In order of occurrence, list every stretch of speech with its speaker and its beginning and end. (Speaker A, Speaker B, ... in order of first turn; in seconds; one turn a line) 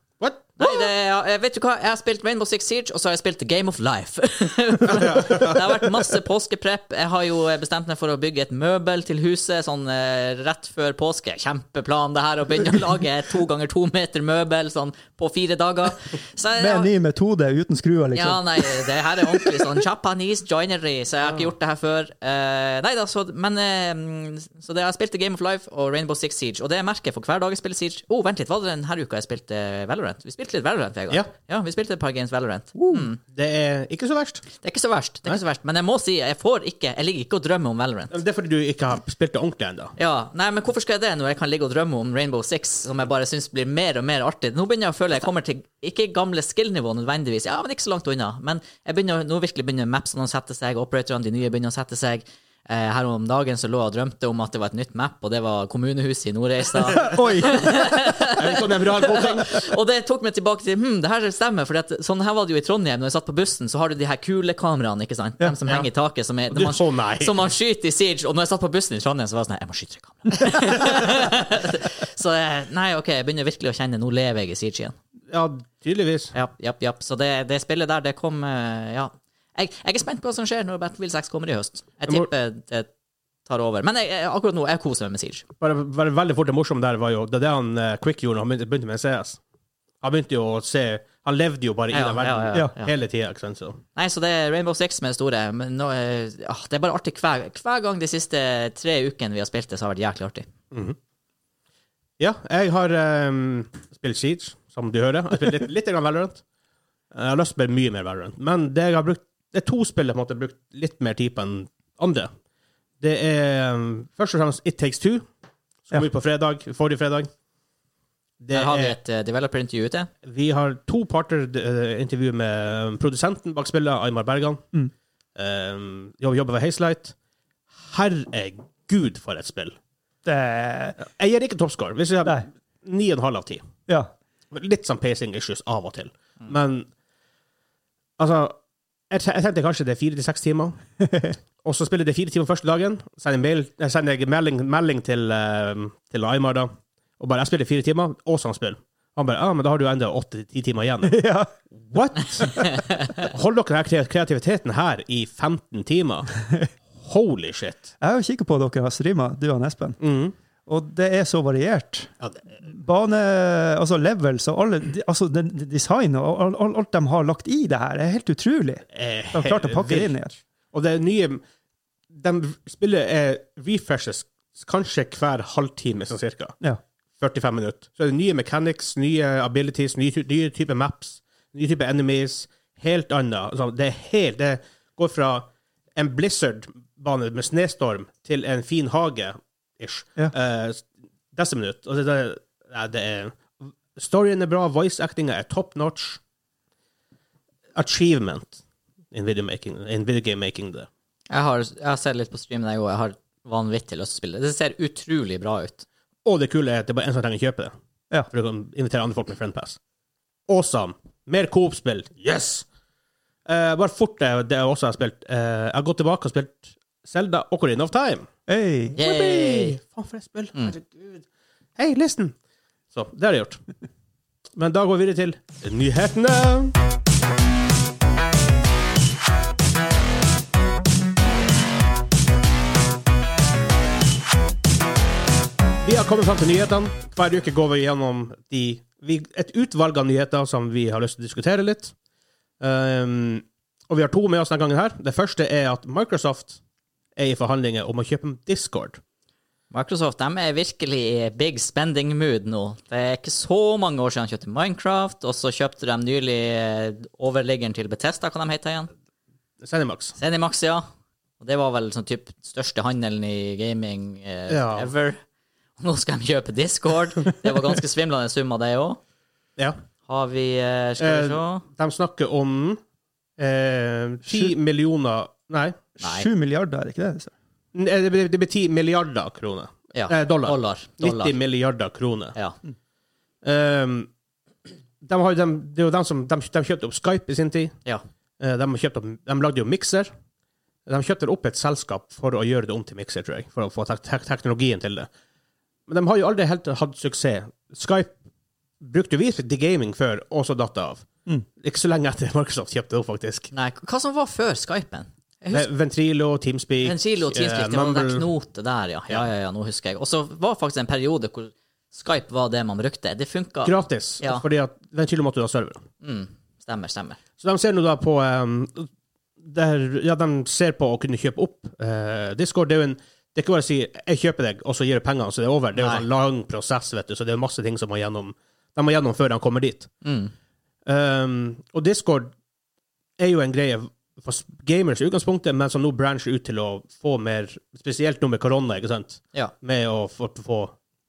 Speaker A: 0.2-0.8
Speaker B: 0.6-16.9
Speaker A: 4.8-5.6
Speaker C: 16.6-19.7
Speaker B: 18.1-33.2
Speaker C: 32.8-33.0
Speaker A: 33.3-34.4
Speaker B: 34.6-38.1
Speaker A: 38.1-39.9
Speaker B: 40.0-75.0
Speaker C: 56.9-58.1
Speaker A: 58.2-59.6
Speaker A: 66.5-67.4
Speaker A: 75.3-76.3
Speaker B: 76.3-82.9
Speaker B: 83.5-85.5
Speaker A: 85.6-89.4
Speaker A: 90.0-93.8
Speaker B: 91.9-92.9
Speaker B: 94.0-100.5
Speaker A: 100.7-101.0
Speaker A: 102.2-106.4
Speaker A: 107.1-112.3
Speaker A: 113.0-115.3
Speaker A: 115.9-117.3
Speaker A: 118.4-118.9
Speaker B: 118.5-120.1
Speaker A: 120.2-124.6
Speaker A: 125.3-127.1
Speaker A: 127.8-129.8
Speaker C: 130.2-130.9
Speaker A: 131.0-133.7
Speaker A: 134.5-136.9
Speaker A: 138.2-138.6
Speaker A: 139.1-140.8
Speaker C: 141.0-141.3
Speaker A: 141.6-151.2
Speaker C: 151.1-151.5
Speaker A: 151.7-156.3
Speaker A: 156.9-157.9
Speaker C: 158.0-160.0
Speaker A: 160.0-160.3
Speaker C: 160.7-170.4
Speaker A: 168.9-170.1
Speaker A: 170.7-171.4
Speaker A: 172.1-176.6
Speaker A: 177.2-196.2
Speaker A: 197.7-198.6
Speaker A: 199.1-200.9
Speaker B: 201.3-205.8
Speaker A: 206.2-207.8
Speaker A: 208.3-209.8
Speaker A: 210.5-212.7
Speaker A: 213.4-218.3
Speaker C: 218.5-219.0
Speaker A: 218.9-221.2
Speaker B: 219.0-219.8
Speaker A: 221.8-222.3
Speaker A: 222.9-223.6
Speaker A: 224.6-226.7
Speaker A: 235.8-241.9
Speaker A: 242.6-246.6
Speaker A: 247.2-249.0
Speaker B: 249.7-258.9
Speaker A: 259.6-260.1
Speaker B: 260.2-260.9
Speaker B: 261.4-265.2
Speaker A: 264.5-264.9
Speaker B: 265.8-269.0
Speaker B: 270.1-271.6
Speaker A: 271.0-272.8
Speaker A: 273.4-275.8
Speaker C: 276.0-277.3
Speaker B: 276.0-276.3
Speaker A: 277.7-282.4
Speaker B: 279.9-281.4
Speaker A: 283.4-284.1
Speaker A: 285.0-287.8
Speaker A: 288.4-290.1
Speaker A: 290.9-295.1
Speaker A: 295.9-298.1
Speaker A: 298.8-301.1
Speaker A: 301.6-303.5
Speaker B: 303.5-305.7
Speaker A: 305.5-308.3
Speaker B: 306.8-314.4
Speaker A: 313.6-315.8
Speaker B: 316.0-317.2
Speaker A: 317.4-318.9
Speaker A: 319.4-329.9
Speaker B: 325.8-326.0
Speaker B: 330.0-330.3
Speaker A: 330.9-332.3
Speaker A: 333.2-340.7